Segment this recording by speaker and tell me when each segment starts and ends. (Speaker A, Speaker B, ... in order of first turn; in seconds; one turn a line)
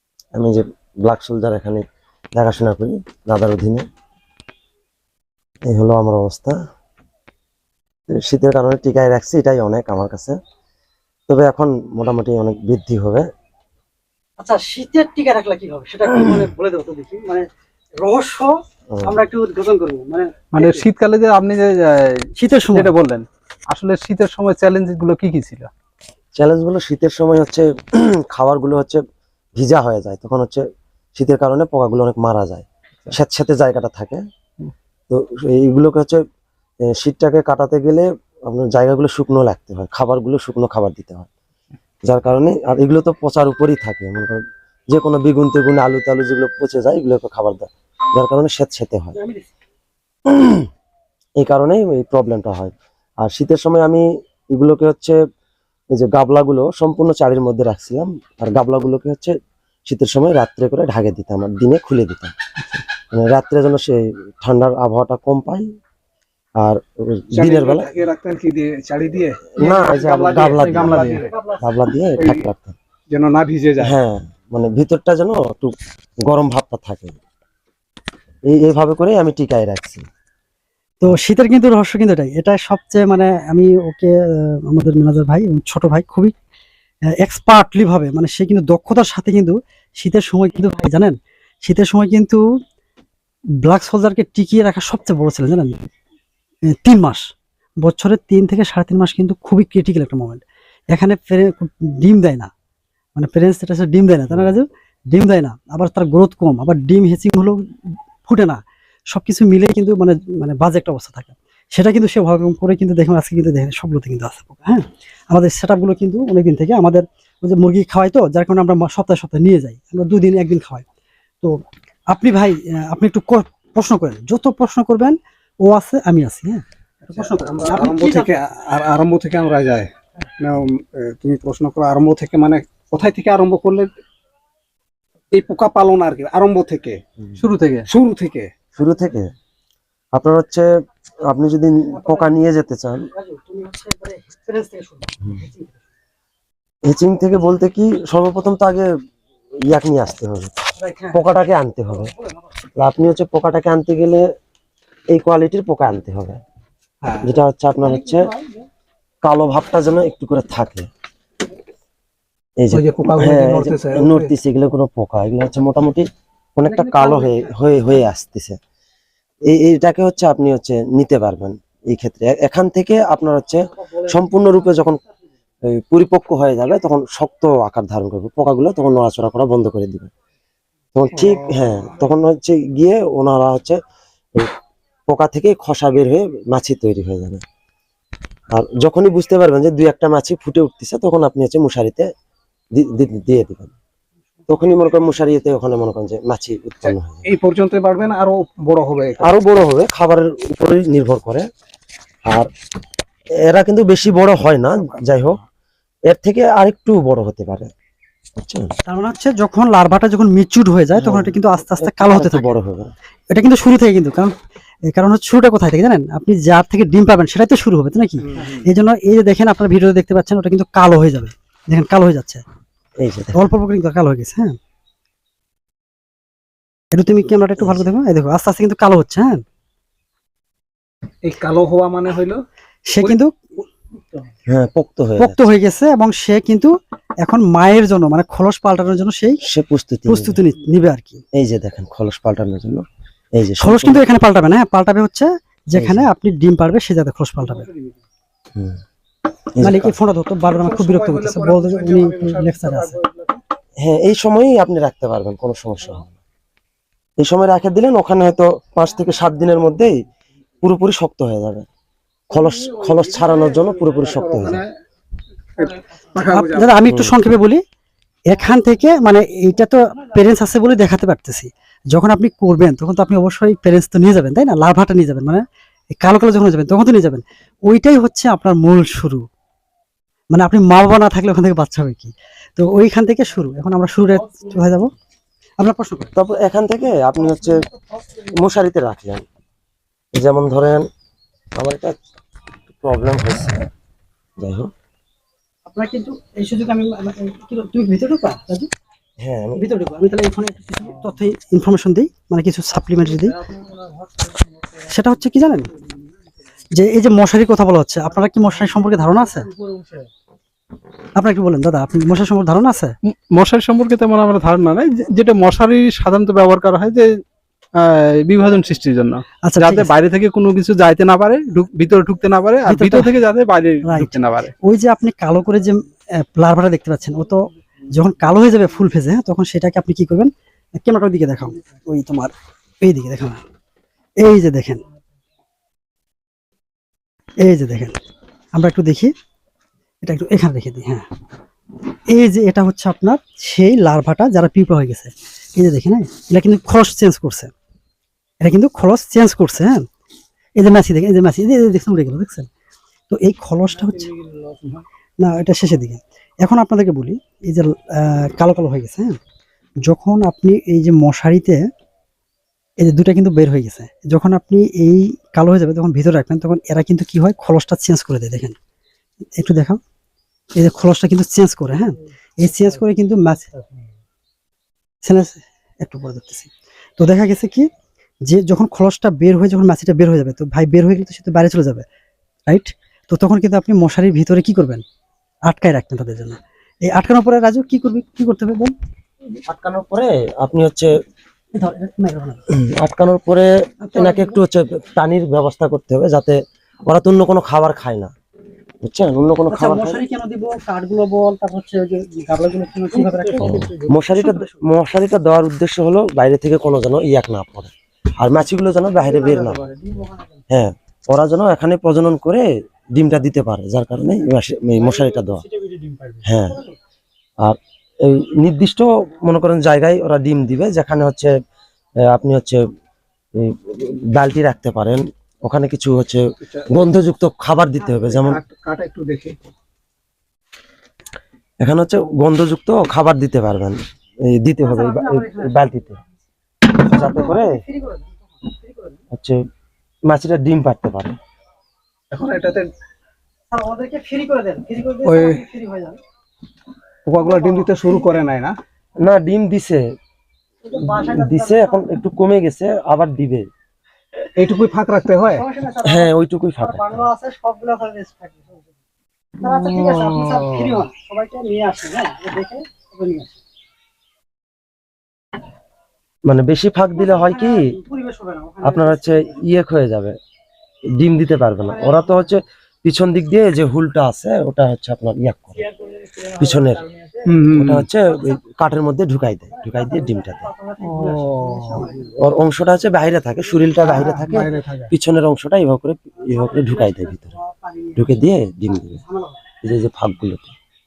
Speaker A: 0.3-1.8
Speaker A: 2.4-3.9
Speaker A: 5.7-6.6
Speaker A: 8.1-10.3
Speaker A: 11.3-13.3
Speaker B: 14.4-18.5
Speaker A: 18.9-19.2
Speaker B: 19.0-20.8
Speaker C: 20.5-25.7
Speaker B: 22.4-22.9
Speaker A: 26.4-29.0
Speaker A: 29.6-30.6
Speaker A: 31.2-34.2
Speaker A: 35.1-36.2
Speaker A: 36.8-41.3
Speaker A: 42.1-49.2
Speaker B: 49.2-49.5
Speaker A: 50.3-50.7
Speaker A: 51.4-55.2
Speaker A: 55.9-62.3
Speaker A: 63.1-65.7
Speaker A: 66.6-67.9
Speaker D: 67.3-71.3
Speaker A: 69.6-72.8
Speaker B: 71.1-71.6
Speaker D: 72.2-72.5
Speaker D: 73.1-74.0
Speaker A: 73.8-75.7
Speaker A: 76.3-77.2
Speaker A: 78.5-80.0
Speaker B: 81.0-86.3
Speaker B: 87.2-92.4
Speaker B: 93.6-95.8
Speaker B: 96.7-97.3
Speaker B: 97.8-102.5
Speaker B: 103.2-107.7
Speaker B: 108.2-120.8
Speaker B: 121.4-128.3
Speaker D: 127.2-133.9
Speaker D: 135.3-137.0
Speaker C: 137.4-137.9
Speaker D: 137.9-138.5
Speaker A: 138.8-139.3
Speaker A: 140.1-140.7
Speaker A: 141.3-143.0
Speaker B: 142.0-142.3
Speaker B: 143.1-145.8
Speaker A: 146.8-148.9
Speaker A: 149.7-150.6
Speaker B: 150.8-151.2
Speaker A: 151.1-152.1
Speaker A: 152.8-154.3
Speaker A: 155.1-156.4
Speaker D: 157.0-157.3
Speaker A: 157.2-158.3
Speaker B: 157.9-158.6
Speaker A: 159.2-160.9
Speaker A: 162.6-168.6
Speaker D: 162.7-164.3
Speaker B: 166.7-167.5
Speaker A: 169.4-175.0
Speaker A: 175.7-180.1
Speaker A: 180.9-183.8
Speaker A: 185.1-187.4
Speaker A: 188.5-192.1
Speaker A: 192.7-193.7
Speaker A: 194.5-197.3
Speaker D: 196.9-199.3
Speaker A: 199.2-201.5
Speaker A: 203.4-205.4
Speaker A: 206.1-207.7
Speaker A: 208.4-208.8
Speaker B: 208.9-212.6
Speaker A: 210.9-212.9
Speaker B: 213.3-214.3
Speaker B: 214.9-222.4
Speaker A: 223.0-223.4
Speaker B: 223.3-224.6
Speaker B: 226.9-229.4
Speaker A: 227.6-227.9
Speaker D: 231.2-232.4
Speaker B: 232.9-233.4
Speaker A: 234.5-235.4
Speaker B: 235.2-236.7
Speaker B: 237.2-239.4
Speaker A: 239.4-240.4
Speaker B: 240.1-241.2
Speaker A: 241.3-244.1
Speaker B: 243.6-247.7
Speaker A: 245.7-246.1
Speaker D: 247.6-247.9
Speaker A: 249.6-249.9
Speaker B: 249.6-253.0
Speaker D: 250.4-253.4
Speaker A: 253.8-256.2
Speaker A: 257.2-260.0
Speaker A: 260.6-261.7
Speaker A: 262.3-264.6
Speaker D: 262.3-264.7
Speaker D: 265.6-266.8
Speaker B: 266.2-267.6
Speaker A: 266.9-267.2
Speaker B: 268.3-279.2
Speaker B: 280.3-284.9
Speaker B: 285.6-286.1
Speaker A: 286.2-287.6
Speaker A: 288.2-289.2
Speaker A: 290.1-290.9
Speaker A: 291.6-291.9
Speaker A: 292.8-293.6
Speaker A: 294.4-294.7
Speaker B: 295.7-298.7
Speaker A: 299.2-299.6
Speaker B: 299.6-303.4
Speaker B: 304.9-305.7
Speaker B: 306.7-309.5
Speaker B: 311.2-312.9
Speaker C: 313.1-317.2
Speaker C: 317.8-324.5
Speaker B: 319.4-319.9
Speaker B: 322.7-323.1
Speaker B: 323.8-327.4
Speaker B: 327.9-333.4
Speaker B: 334.2-334.8
Speaker B: 337.4-338.0
Speaker B: 338.6-339.1
Speaker B: 340.0-341.1
Speaker B: 342.1-347.5
Speaker B: 348.4-349.9
Speaker B: 350.6-352.5
Speaker B: 353.1-354.1
Speaker D: 354.3-354.7
Speaker B: 355.2-359.2
Speaker B: 359.9-361.7
Speaker B: 362.8-368.6
Speaker B: 369.4-369.8
Speaker B: 370.6-373.5
Speaker B: 375.0-377.7
Speaker B: 378.3-381.9
Speaker B: 382.5-384.8
Speaker B: 385.5-388.8
Speaker A: 389.5-390.9
Speaker B: 391.5-392.4
Speaker A: 392.5-398.1
Speaker B: 393.8-394.4
Speaker A: 398.8-400.0
Speaker B: 399.5-403.6
Speaker D: 403.1-403.9
Speaker A: 403.4-409.6
Speaker A: 410.5-412.4
Speaker A: 412.9-415.4
Speaker C: 415.6-416.1
Speaker A: 416.2-416.6
Speaker A: 417.4-421.3
Speaker A: 422.0-422.6
Speaker A: 423.4-428.4
Speaker D: 426.4-426.7
Speaker D: 428.1-429.4
Speaker A: 431.6-436.0
Speaker B: 434.6-435.6
Speaker B: 436.8-439.0
Speaker A: 436.9-437.6
Speaker A: 439.1-439.4
Speaker A: 440.1-441.2
Speaker D: 442.1-442.7
Speaker C: 442.2-442.6
Speaker B: 443.5-446.0
Speaker D: 445.1-445.4
Speaker D: 447.1-448.5
Speaker B: 447.2-448.1
Speaker A: 449.0-449.8
Speaker B: 450.6-451.9
Speaker A: 450.9-453.5
Speaker D: 454.4-455.4
Speaker B: 455.3-458.7
Speaker A: 455.8-457.1
Speaker B: 459.4-463.4
Speaker A: 466.3-467.7
Speaker B: 467.0-469.4
Speaker A: 468.6-470.2
Speaker A: 471.0-475.6
Speaker B: 471.8-472.0
Speaker A: 476.3-476.9
Speaker D: 477.3-477.9
Speaker A: 477.5-480.5
Speaker B: 479.5-482.1
Speaker D: 481.0-481.9
Speaker A: 482.2-487.4
Speaker D: 483.8-484.9
Speaker B: 486.3-488.1
Speaker A: 488.0-489.0
Speaker B: 488.7-489.4
Speaker A: 489.6-490.5